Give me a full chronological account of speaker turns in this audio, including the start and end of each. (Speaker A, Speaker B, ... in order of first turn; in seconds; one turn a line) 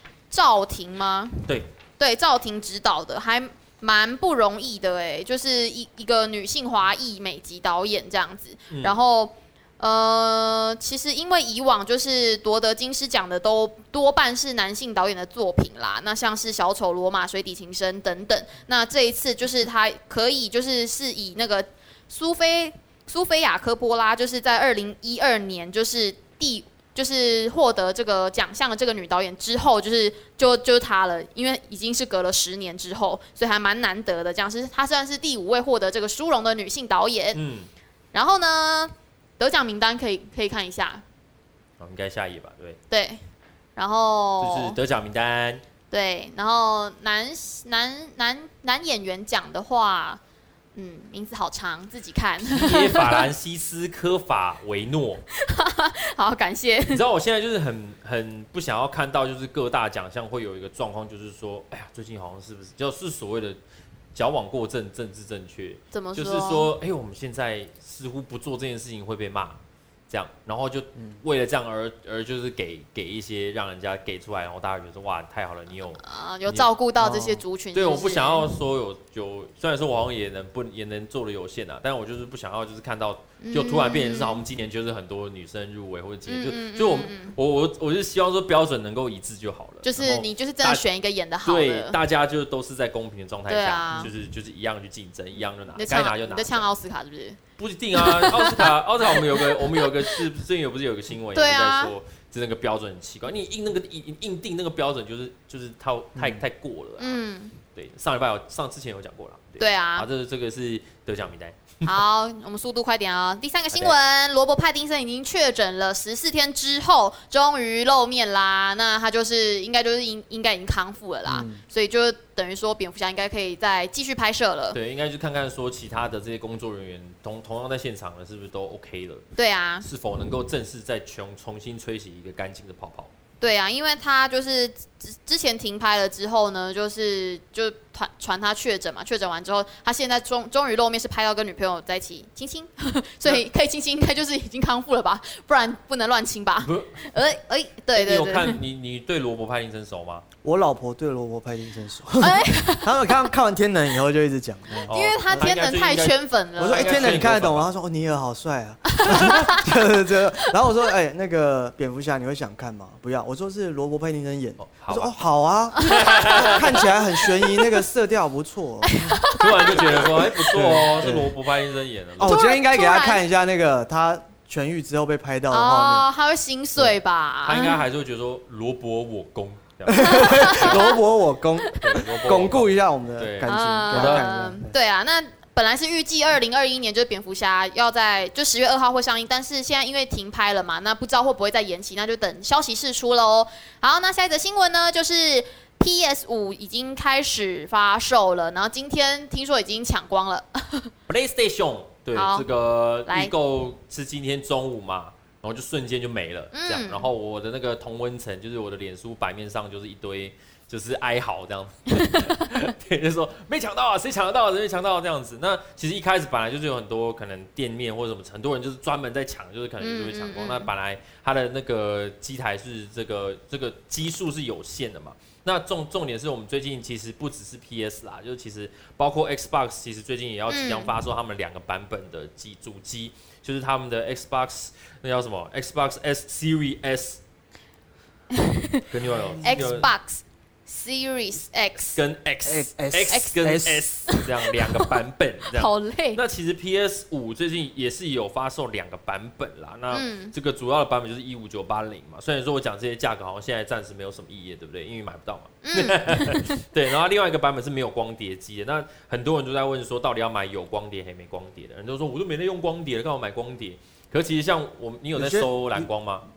Speaker A: 0.3-37.4
Speaker B: 8.7-9.0
Speaker B: 37.3-37.7
Speaker A: 38.1-41.0
Speaker B: 41.8-42.8
Speaker A: 42.9-43.2
Speaker A: 43.8-44.8
Speaker B: 44.4-45.6
Speaker A: 45.9-50.2
Speaker A: 50.7-53.3
Speaker B: 52.4-55.2
Speaker A: 55.4-57.0
Speaker B: 56.9-63.6
Speaker B: 64.1-76.7
Speaker A: 65.9-66.7
Speaker A: 76.0-78.5
Speaker C: 77.0-77.4
Speaker B: 77.7-90.8
Speaker A: 83.4-84.4
Speaker A: 86.3-87.3
Speaker A: 89.8-92.0
Speaker B: 91.4-96.7
Speaker A: 93.5-94.1
Speaker A: 95.8-97.4
Speaker B: 97.6-107.2
Speaker A: 97.9-100.2
Speaker A: 101.3-101.9
Speaker C: 106.2-106.4
Speaker A: 107.0-107.6
Speaker B: 107.7-112.0
Speaker A: 109.6-110.1
Speaker A: 111.8-124.8
Speaker C: 121.3-121.6
Speaker B: 124.7-129.2
Speaker A: 129.3-129.8
Speaker B: 129.8-133.1
Speaker A: 133.4-148.6
Speaker B: 146.6-147.1
Speaker B: 147.9-150.2
Speaker C: 150.4-154.9
Speaker A: 152.2-153.1
Speaker B: 154.8-157.7
Speaker A: 154.9-157.1
Speaker C: 156.6-168.9
Speaker A: 158.9-159.7
Speaker B: 164.6-165.1
Speaker A: 165.8-166.6
Speaker B: 165.8-166.7
Speaker A: 167.3-167.8
Speaker A: 168.8-171.1
Speaker B: 169.3-172.4
Speaker C: 170.5-171.3
Speaker C: 172.2-176.1
Speaker A: 172.2-173.2
Speaker A: 175.5-177.8
Speaker B: 177.4-180.8
Speaker C: 179.9-184.7
Speaker A: 179.9-181.0
Speaker B: 181.8-184.3
Speaker A: 183.4-200.9
Speaker B: 201.1-237.2
Speaker A: 202.1-202.5
Speaker A: 203.1-203.3
Speaker A: 206.5-207.1
Speaker A: 212.1-212.3
Speaker A: 219.8-220.7
Speaker A: 230.5-230.9
Speaker A: 238.3-238.8
Speaker B: 238.9-239.9
Speaker C: 239.2-239.8
Speaker A: 239.4-242.0
Speaker B: 241.9-266.2
Speaker C: 242.4-243.9
Speaker A: 243.1-243.3
Speaker A: 244.1-244.9
Speaker A: 245.5-246.2
Speaker A: 249.9-250.3
Speaker A: 255.6-256.6
Speaker C: 265.1-265.9